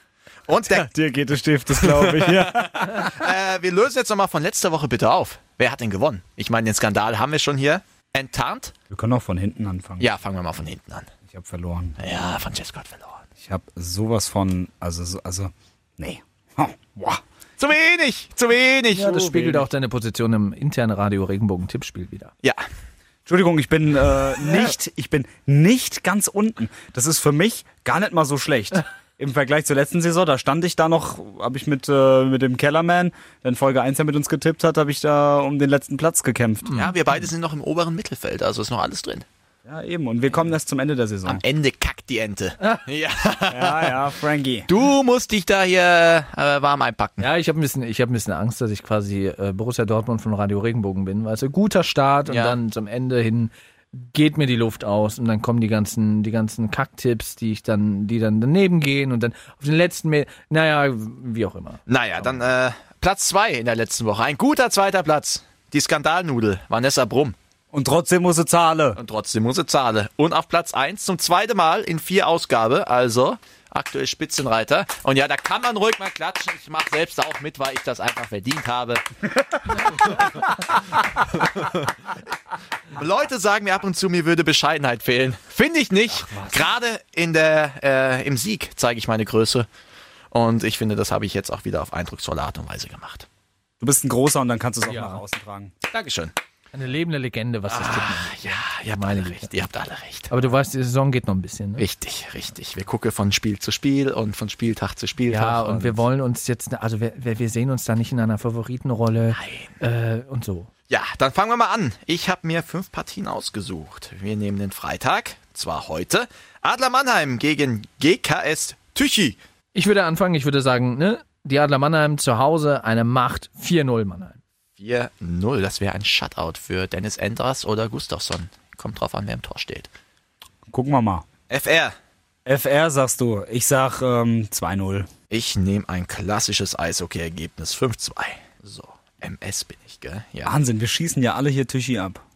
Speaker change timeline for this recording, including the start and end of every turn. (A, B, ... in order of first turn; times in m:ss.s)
0:00.5-0:00.9 A
0:00.7-0:03.1 B
0:01.8-0:08.7 A
0:08.9-0:10.0 B
0:10.0-0:11.1 A
0:11.3-0:12.0 B
0:12.0-0:13.2 A
0:13.4-0:17.2 B
0:17.6-0:19.6 A
0:18.9-0:22.3 C
0:23.3-0:36.8 B
0:36.7-0:37.0 C
0:36.7-0:39.3 A
0:39.6-0:41.4 B
0:41.3-0:44.0 A
0:43.5-0:44.7 B
0:44.7-0:47.3 A
0:47.2-1:02.4 C
0:52.3-0:52.6 A
1:01.9-1:07.4 A
1:07.7-1:09.0 B
1:09.0-1:19.0 A
1:19.7-1:20.5 A
1:21.3-1:21.9 A
1:22.9-1:29.7 A
1:26.1-1:26.6 C
1:30.3-1:33.3 A
1:33.8-1:35.7 B
1:34.8-1:35.2 C
1:35.9-1:36.3 A
1:36.7-1:39.5 C
1:37.7-1:40.3 A
1:40.3-1:41.8 C
1:41.8-1:46.0 A
1:45.3-1:50.7 C
1:49.3-1:49.7 A
1:50.9-1:59.4 A
1:59.7-2:04.4 C
2:04.8-2:09.9 A
2:10.7-2:11.2 B
2:11.5-2:11.9 A
2:12.4-2:15.1 B
2:15.3-2:20.5 A
2:20.4-2:22.2 B